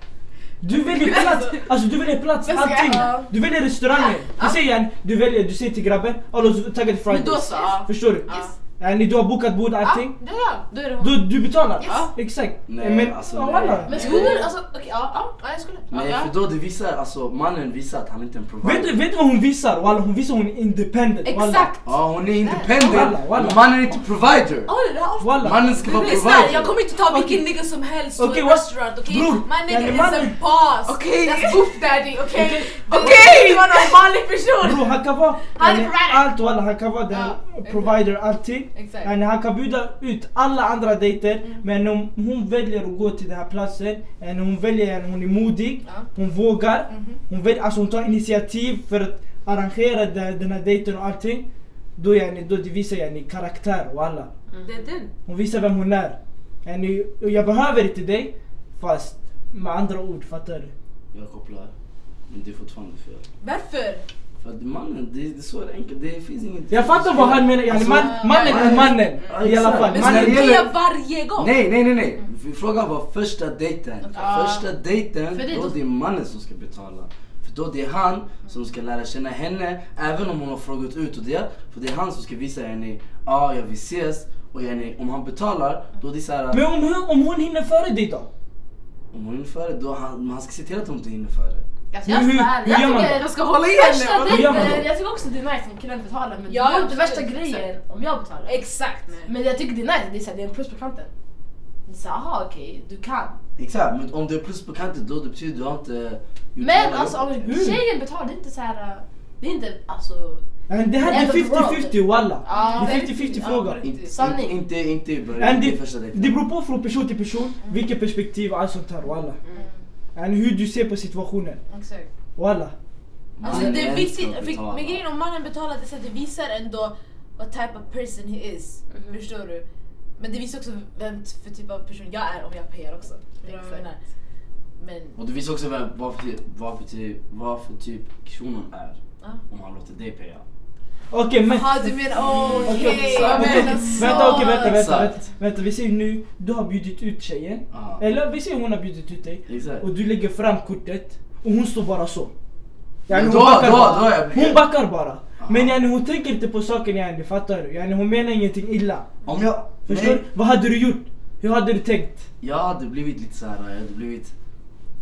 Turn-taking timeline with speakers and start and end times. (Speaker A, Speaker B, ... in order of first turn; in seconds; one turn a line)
Speaker A: 0.6-8.3
Speaker B: 1.0-1.4
Speaker C: 2.5-3.2
Speaker D: 2.9-3.3
Speaker C: 7.1-8.5
Speaker B: 8.3-8.5
Speaker A: 8.8-10.2
Speaker C: 9.8-11.3
Speaker A: 11.0-14.0
Speaker C: 11.8-12.1
Speaker B: 11.8-12.1
Speaker E: 12.7-14.4
Speaker D: 13.8-15.4
Speaker C: 13.9-14.4
Speaker C: 15.4-16.3
Speaker E: 15.9-19.0
Speaker A: 18.6-21.7
Speaker C: 21.2-23.1
Speaker E: 21.9-24.7
Speaker A: 22.8-23.6
Speaker C: 24.6-35.0
Speaker A: 25.2-25.7
Speaker E: 25.4-26.8
Speaker A: 27.1-27.4
Speaker A: 28.2-30.4
Speaker B: 30.9-34.0
Speaker A: 32.4-32.8
Speaker A: 34.6-54.3
Speaker C: 35.5-36.3
Speaker C: 37.1-37.4
Speaker C: 38.7-39.1
Speaker B: 54.7-55.1
Speaker A: 55.3-60.7
Speaker E: 61.1-61.7
Speaker E: 62.3-63.2
Speaker C: 63.4-64.0
Speaker E: 64.4-70.8
Speaker A: 66.7-70.5
Speaker C: 67.8-68.8
Speaker B: 69.0-69.4
Speaker C: 69.7-71.5
Speaker E: 71.4-86.6
Speaker D: 74.1-74.7
Speaker D: 75.3-75.8
Speaker A: 86.5-88.3
Speaker E: 89.1-91.6
Speaker C: 91.9-93.0
Speaker D: 92.0-98.6
Speaker A: 92.1-93.2
Speaker B: 92.7-94.6
Speaker A: 94.2-94.8
Speaker E: 94.5-94.8
Speaker C: 96.5-97.7
Speaker C: 98.5-99.2
Speaker B: 99.1-99.3
Speaker D: 99.3-101.1
Speaker D: 101.8-103.4
Speaker E: 103.6-107.6
Speaker D: 106.6-110.4
Speaker A: 107.5-107.8
Speaker A: 110.7-113.8
Speaker D: 111.0-113.1
Speaker C: 112.5-114.1
Speaker E: 113.8-116.3
Speaker D: 114.1-114.6
Speaker A: 115.4-119.4
Speaker A: 120.2-121.6
Speaker C: 121.7-122.1
Speaker A: 122.3-122.7
Speaker E: 123.4-125.0
Speaker C: 123.4-129.6
Speaker D: 128.9-129.2
Speaker C: 130.2-134.0
Speaker B: 133.5-133.8
Speaker C: 134.8-135.2
Speaker E: 135.2-139.0
Speaker E: 139.5-140.4
Speaker A: 141.1-152.3
Speaker C: 141.4-144.7
Speaker E: 142.1-145.2
Speaker B: 142.8-144.1
Speaker E: 147.7-148.1
Speaker E: 149.5-149.9
Speaker A: 153.1-159.2
Speaker E: 153.1-154.7
Speaker E: 155.4-155.7
Speaker E: 159.3-160.2
Speaker A: 159.8-162.3
Speaker E: 162.4-164.3